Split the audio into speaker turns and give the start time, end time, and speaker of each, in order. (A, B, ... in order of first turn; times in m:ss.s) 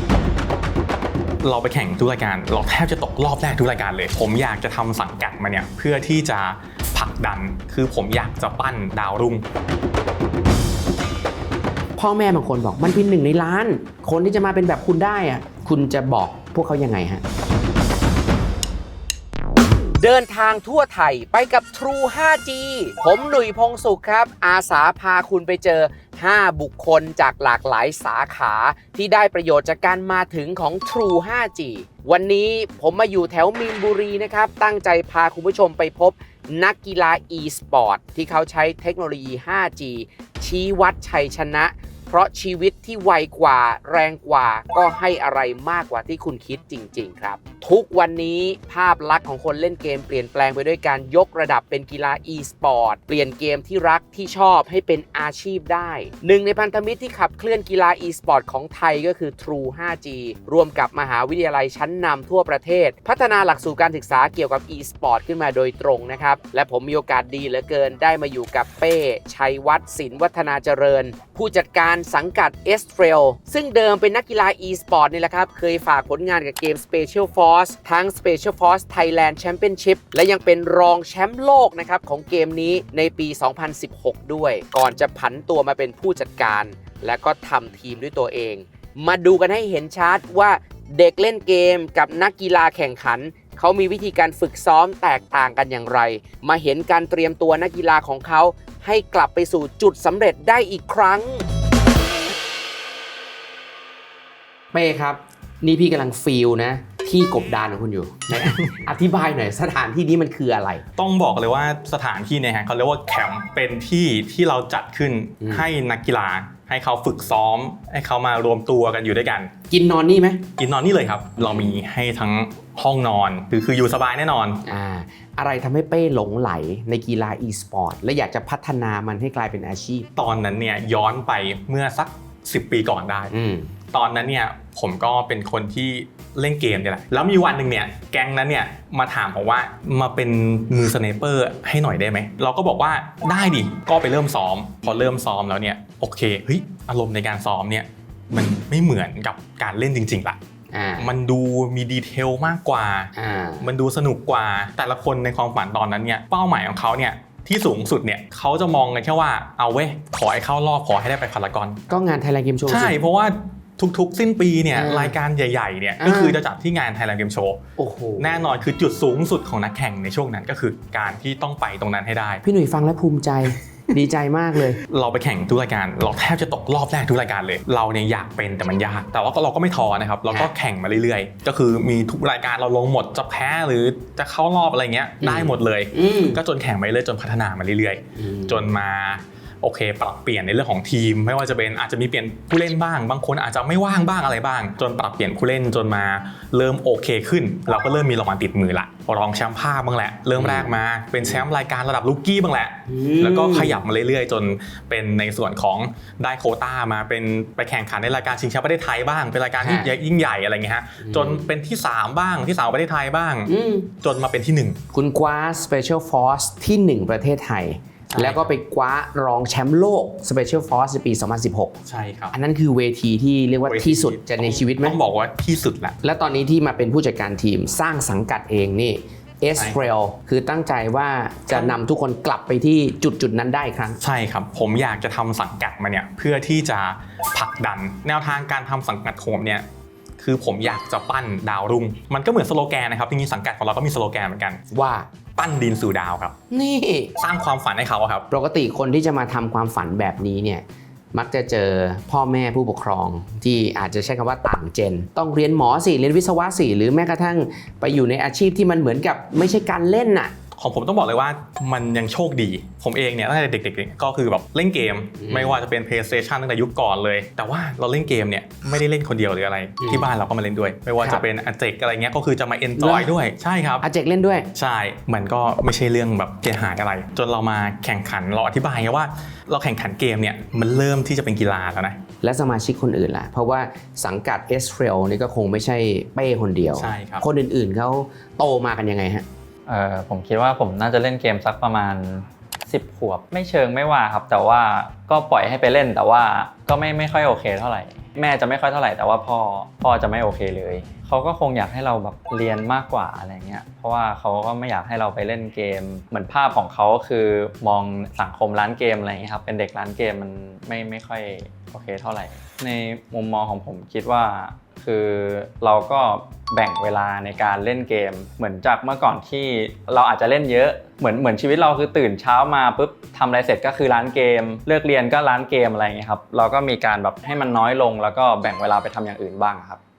0:01.4-0:09.4 A
0:12.0-0:17.2 B
0:20.0-1:41.5 B
1:44.7-1:50.8 B
1:48.3-1:48.8 A
1:51.0-1:59.5 A
1:55.4-1:55.7 B
1:59.7-2:00.4 B
2:00.6-2:04.6 A
2:01.4-2:01.7 B
2:04.6-2:10.1 B
2:10.2-2:13.3 A
2:13.3-2:13.7 B
2:13.9-2:30.4 A
2:30.7-2:31.1 B
2:31.0-2:41.8 A
2:33.2-2:33.7 B
2:41.9-2:43.0 B
2:42.7-2:47.6 A
2:44.7-2:45.2 B
2:46.0-2:46.4 B
2:47.8-2:48.5 B
2:48.2-2:52.4 A
2:52.4-2:54.8 B
2:54.8-3:34.8 A
3:05.2-3:06.4 B
3:08.2-3:08.7 B
3:20.4-3:21.4 B
3:22.9-3:23.8 B
3:29.6-3:29.9 B
3:31.0-3:31.5 B
3:33.5-3:33.9 B
3:34.9-3:41.8 B
3:38.1-3:38.6 A
3:41.9-3:42.4 A
3:42.3-3:45.0 B
3:43.7-3:46.0 A
3:46.0-3:54.0 B
3:51.5-3:51.8 A
3:54.0-3:59.6 A
4:00.2-4:04.6 A
4:04.7-4:05.1 B
4:05.4-4:06.4 A
4:06.5-4:07.2 B
4:07.2-4:08.3 A
4:08.3-4:20.3 B
4:20.6-4:33.8 A
4:25.2-4:25.6 B
4:29.8-4:30.1 B
4:32.8-4:33.1 B
4:33.8-4:34.5 B
4:34.5-4:42.0 A
4:42.2-4:49.2 B
4:46.7-4:47.3 A
4:49.7-5:29.8 C